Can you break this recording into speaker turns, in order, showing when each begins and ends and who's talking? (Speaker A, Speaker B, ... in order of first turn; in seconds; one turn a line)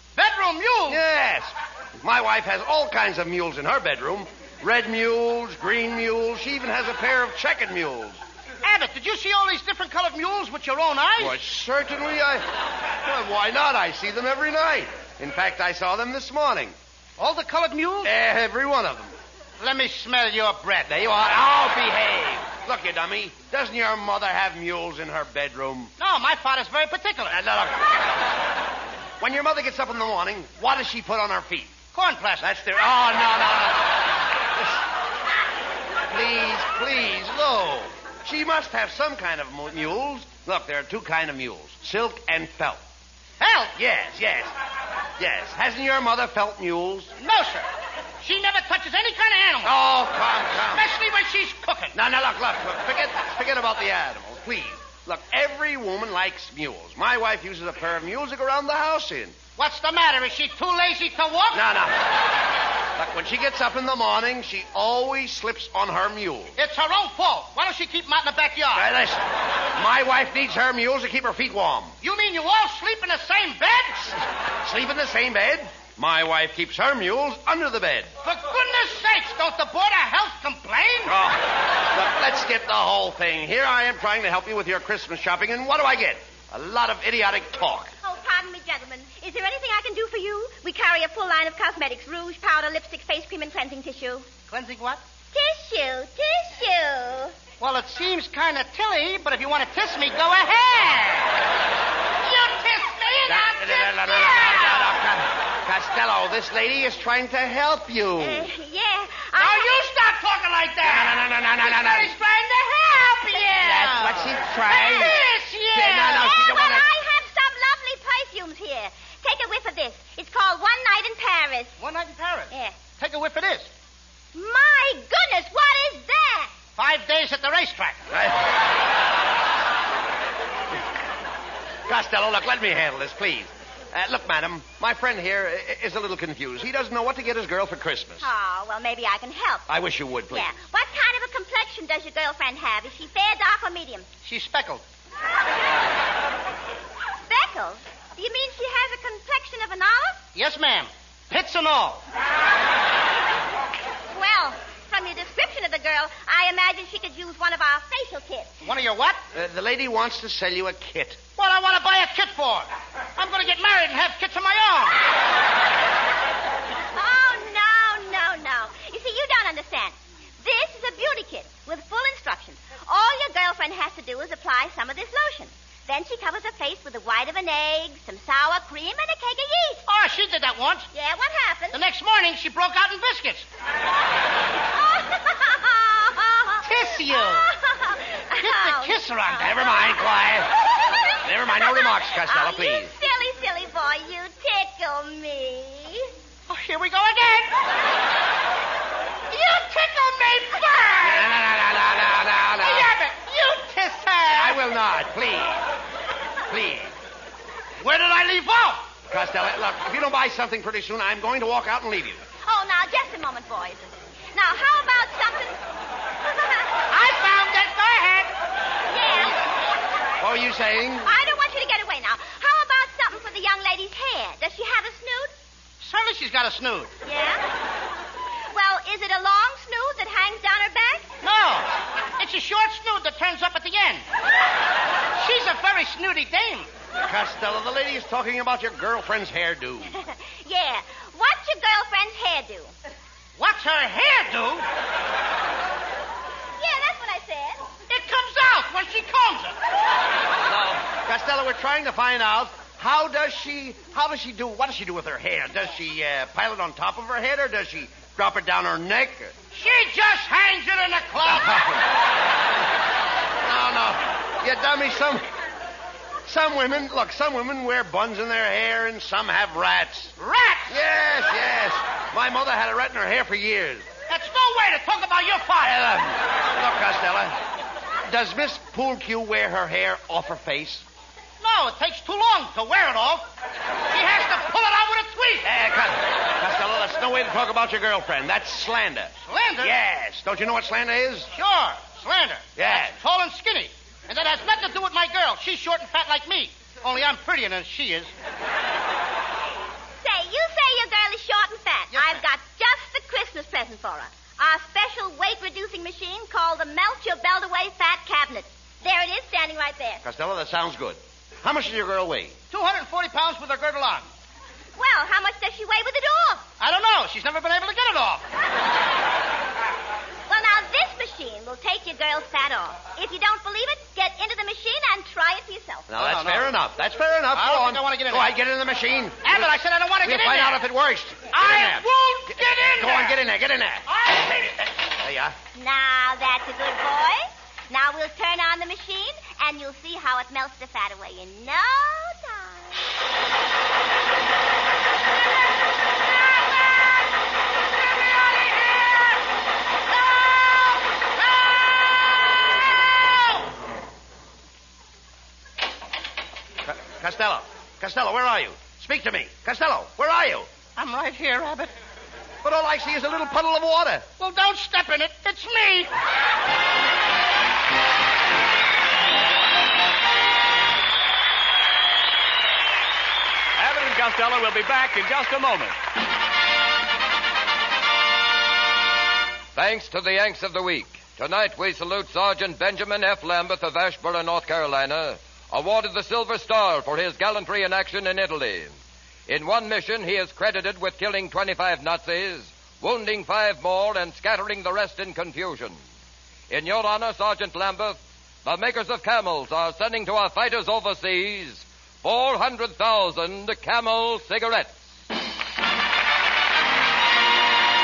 Speaker A: 0.1-1.0
Speaker B: 0.9-8.2
Speaker A: 8.6-11.4
Speaker B: 11.2-12.5
Speaker B: 13.0-16.8
Speaker A: 17.2-18.1
Speaker B: 18.0-19.1
Speaker A: 19.6-20.9
Speaker B: 20.9-25.9
Speaker A: 26.0-27.4
Speaker B: 27.3-27.9
Speaker B: 29.2-31.7
Speaker A: 31.9-32.5
Speaker B: 32.4-34.0
Speaker B: 34.6-34.8
Speaker B: 36.1-42.8
Speaker A: 43.4-43.8
Speaker B: 43.8-44.5
Speaker B: 45.2-47.1
Speaker A: 47.2-47.7
Speaker A: 48.2-49.7
Speaker B: 49.6-50.9
Speaker A: 50.7-52.0
Speaker B: 52.0-59.4
Speaker A: 59.6-61.6
Speaker B: 61.5-62.1
Speaker B: 63.0-66.5
Speaker A: 66.6-68.9
Speaker B: 68.7-71.9
Speaker A: 72.0-74.2
Speaker B: 74.6-78.1
Speaker A: 78.2-81.1
Speaker B: 81.1-87.9
Speaker C: 88.0-94.3
Speaker A: 94.5-95.0
Speaker C: 95.3-97.3
Speaker A: 97.6-101.4
Speaker A: 102.2-104.9
Speaker B: 103.3-108.5
Speaker C: 108.2-109.9
Speaker A: 109.4-116.3
Speaker B: 110.8-112.1
Speaker B: 113.5-115.2
Speaker B: 115.7-116.9
Speaker C: 116.2-121.7
Speaker A: 121.8-123.7
Speaker C: 122.5-122.8
Speaker C: 124.3-126.5
Speaker A: 126.8-128.0
Speaker B: 128.1-128.5
Speaker B: 131.9-138.3
Speaker C: 138.2-139.6
Speaker B: 139.7-140.5
Speaker C: 140.3-144.1
Speaker A: 144.2-144.8
Speaker C: 147.3-150.2
Speaker A: 150.3-152.0
Speaker C: 154.1-158.5
Speaker A: 158.6-159.2
Speaker B: 159.3-161.2
Speaker A: 161.4-165.0
Speaker C: 166.9-179.8
Speaker A: 179.9-180.9
Speaker C: 180.9-181.8
Speaker A: 181.7-183.5
Speaker C: 184.7-189.9
Speaker A: 186.6-187.5
Speaker A: 188.4-189.5
Speaker B: 189.4-190.5
Speaker C: 190.8-196.1
Speaker B: 191.2-192.9
Speaker A: 196.5-197.5
Speaker A: 199.3-201.3
Speaker B: 201.0-202.9
Speaker A: 202.6-204.6
Speaker B: 204.3-205.7
Speaker B: 206.5-206.9
Speaker A: 207.8-208.9
Speaker B: 209.1-212.2
Speaker C: 212.4-215.6
Speaker C: 216.2-216.7
Speaker A: 216.9-218.3
Speaker C: 218.9-219.5
Speaker B: 220.2-221.1
Speaker C: 221.1-225.3
Speaker A: 225.8-226.9
Speaker C: 227.1-227.4
Speaker C: 228.5-231.1
Speaker A: 231.2-234.1
Speaker A: 235.2-236.7
Speaker B: 237.0-239.9
Speaker C: 240.1-242.7
Speaker A: 243.4-244.6
Speaker C: 246.6-247.6
Speaker A: 247.9-249.6
Speaker B: 250.5-259.3
Speaker A: 259.5-261.6
Speaker B: 261.2-261.9
Speaker B: 263.4-265.2
Speaker B: 266.3-270.1
Speaker A: 270.2-270.8
Speaker B: 270.7-273.9
Speaker A: 274.1-275.8
Speaker B: 275.6-277.4
Speaker B: 278.1-280.8
Speaker A: 281.4-283.3
Speaker A: 283.9-285.5
Speaker B: 285.4-291.3
Speaker A: 289.3-289.7
Speaker A: 291.3-298.1
Speaker B: 292.6-292.9
Speaker C: 300.0-310.0
Speaker A: 301.9-302.2
Speaker B: 310.0-312.3
Speaker A: 312.5-314.1
Speaker C: 314.8-316.4
Speaker A: 316.6-318.3
Speaker C: 320.3-325.9
Speaker B: 325.9-329.5
Speaker A: 326.0-326.6
Speaker A: 327.3-328.3
Speaker A: 329.2-330.6
Speaker B: 330.0-331.9
Speaker A: 331.3-333.2
Speaker B: 332.4-333.9
Speaker A: 333.9-334.6
Speaker B: 335.0-335.4
Speaker C: 335.6-342.8
Speaker B: 356.6-360.5
Speaker A: 360.8-361.7
Speaker B: 362.4-364.1
Speaker A: 364.2-365.9
Speaker D: 373.6-375.8
Speaker E: 379.6-388.8
Speaker E: 389.3-395.8
Speaker E: 396.5-404.8